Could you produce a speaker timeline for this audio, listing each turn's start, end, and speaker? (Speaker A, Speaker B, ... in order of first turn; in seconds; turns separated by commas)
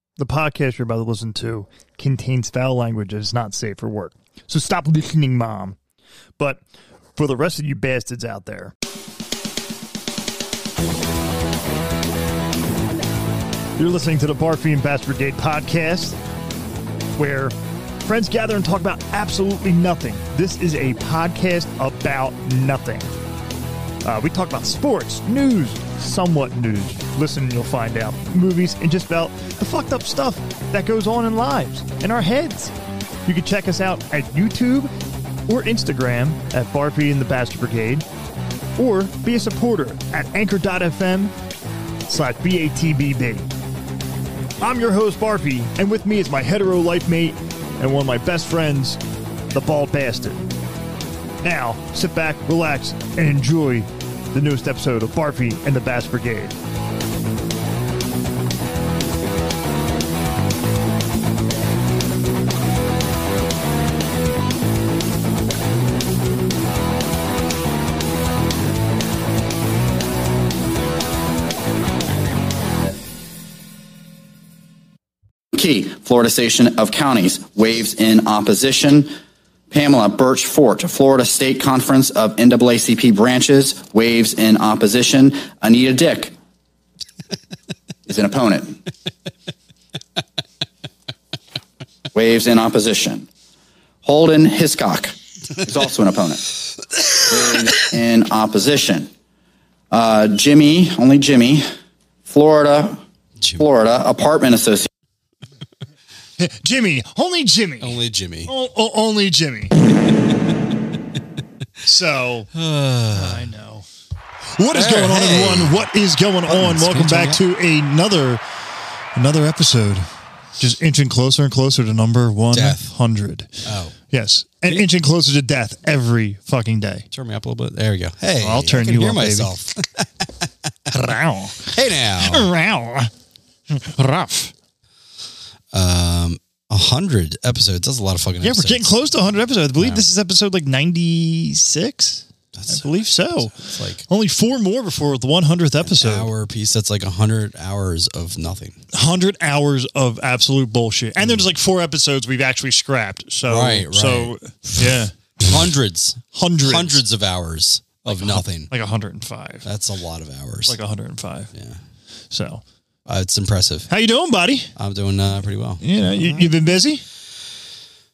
Speaker A: 0.2-5.8, Speaker A: 7.2-8.7, Speaker A: 13.8-16.2, Speaker A: 17.2-23.1, Speaker A: 24.0-32.7, Speaker A: 33.3-34.9, Speaker A: 35.5-38.0, Speaker A: 38.8-41.3, Speaker A: 42.1-43.5, Speaker A: 44.6-49.0, Speaker A: 49.5-50.5, Speaker A: 51.4-56.5, Speaker B: 75.5-79.1, Speaker B: 79.7-86.3, Speaker B: 88.1-88.8, Speaker B: 92.1-93.3, Speaker B: 94.0-96.5, Speaker B: 97.2-99.1, Speaker B: 99.9-101.7, Speaker B: 102.3-103.0, Speaker C: 103.4-103.7, Speaker B: 103.6-104.9, Speaker A: 106.4-109.8, Speaker C: 107.8-108.5, Speaker A: 111.8-112.5, Speaker C: 112.5-113.5, Speaker A: 113.1-113.9, Speaker A: 114.6-118.4, Speaker C: 114.7-115.9, Speaker C: 116.5-117.4, Speaker A: 119.2-120.1, Speaker A: 120.6-123.5, Speaker C: 122.5-122.9, Speaker C: 123.6-123.9, Speaker A: 124.1-127.0, Speaker C: 127.1-130.7, Speaker A: 128.4-129.5, Speaker A: 130.9-133.1, Speaker C: 131.7-132.5, Speaker A: 133.7-134.5, Speaker C: 135.7-139.1, Speaker A: 138.4-146.3, Speaker C: 139.8-140.1, Speaker C: 142.5-144.0, Speaker C: 145.8-148.8, Speaker A: 148.9-155.6, Speaker C: 153.4-158.7, Speaker A: 156.3-157.0, Speaker A: 158.0-159.7, Speaker C: 159.6-160.8, Speaker A: 160.7-161.5, Speaker C: 161.5-161.8, Speaker A: 162.3-162.6, Speaker C: 163.1-163.9, Speaker A: 163.9-164.7, Speaker C: 164.8-166.5, Speaker A: 165.8-167.0